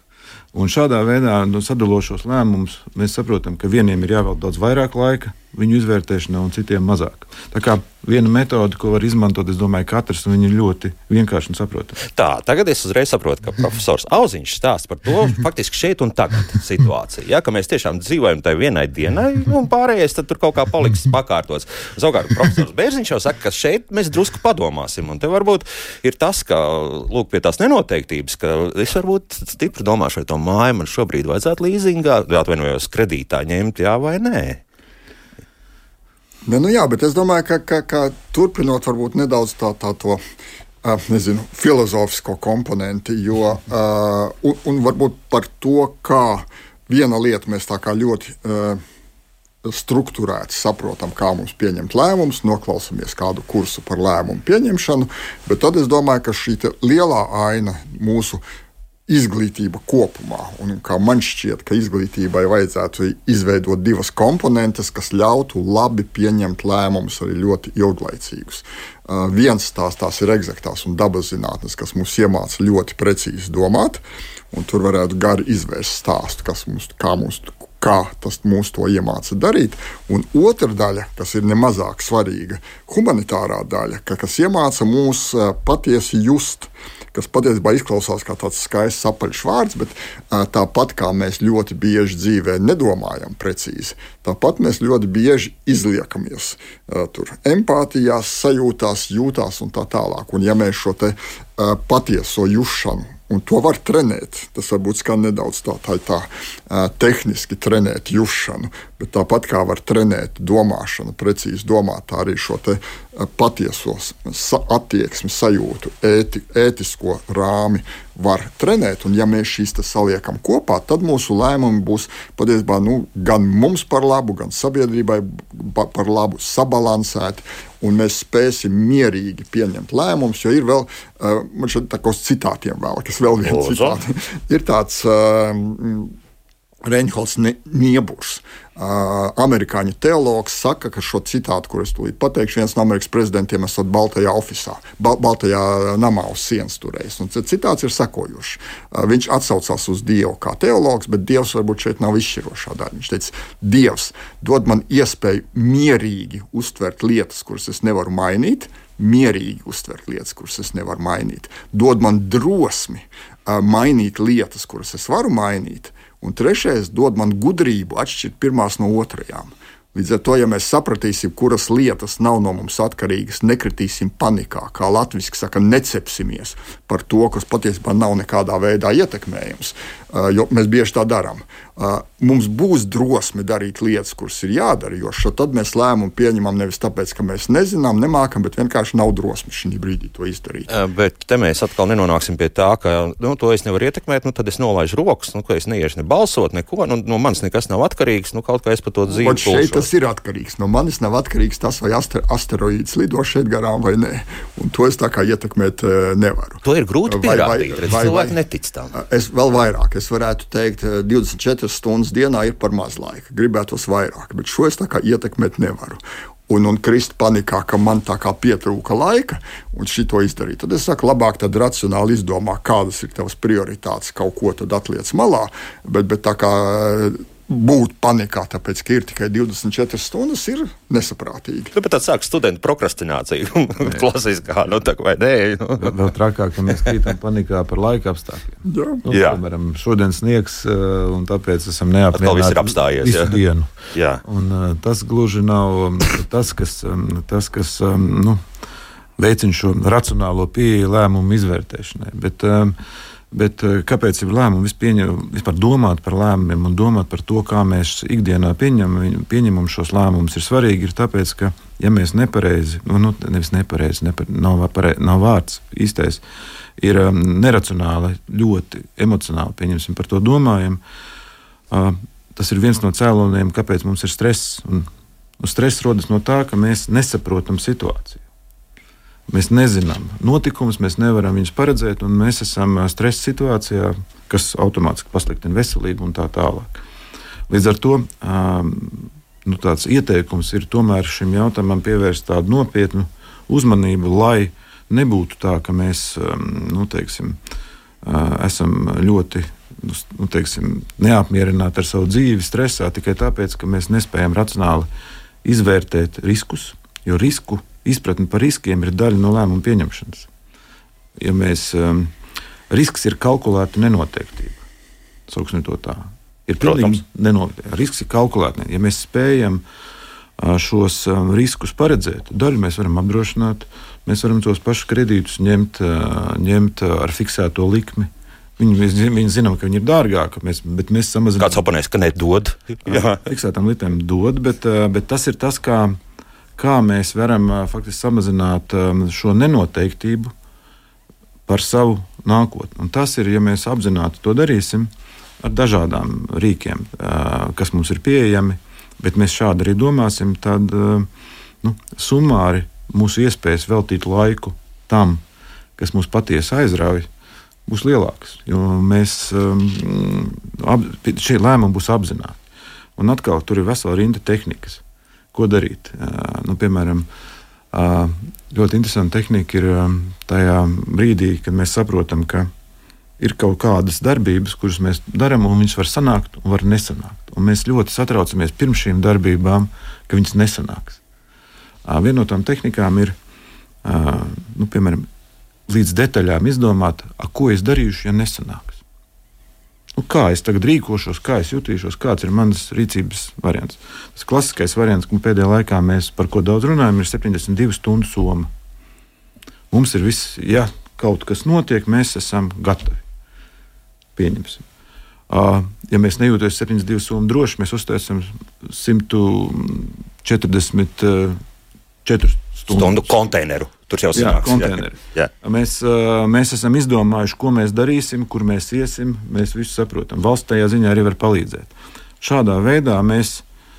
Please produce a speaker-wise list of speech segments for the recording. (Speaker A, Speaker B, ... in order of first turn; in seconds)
Speaker A: 0.5-12.0, 235.8-248.4, 249.2-252.8, 253.3-266.2, 266.8-270.8, 271.7-274.9, 275.4-278.2, 279.3-286.8, 287.5-297.4, 298.0-304.9, 305.4-310.3, 311.2-312.1, 312.7-314.6, 315.3-319.6, 320.4-331.6, 332.9-336.0, 336.6-340.3, 341.5-344.9, 345.4-351.1, 351.6-355.2, 355.8-357.1, 357.7-362.4, 363.0-364.8, 365.3-367.1, 367.7-372.5, 373.2-381.0, 381.8-383.1, 383.8-385.1, 385.7-388.8, 389.9-398.5, 399.7-403.0, 404.1-404.6, 405.3-411.4, 412.0-413.2, 414.1-423.4
Speaker B: 12.0-34.6, 133.4-134.0, 190.7-199.9, 206.6-208.9, 231.7-236.0, 239.1-239.4, 242.1-243.4, 243.9-244.2, 316.6-317.0, 331.4-333.2, 412.7-415.3
Speaker C: 36.5-40.2, 40.8-48.8, 49.6-58.4, 59.1-136.1, 136.8-190.7, 199.1-208.4, 208.9-231.7, 238.6-239.0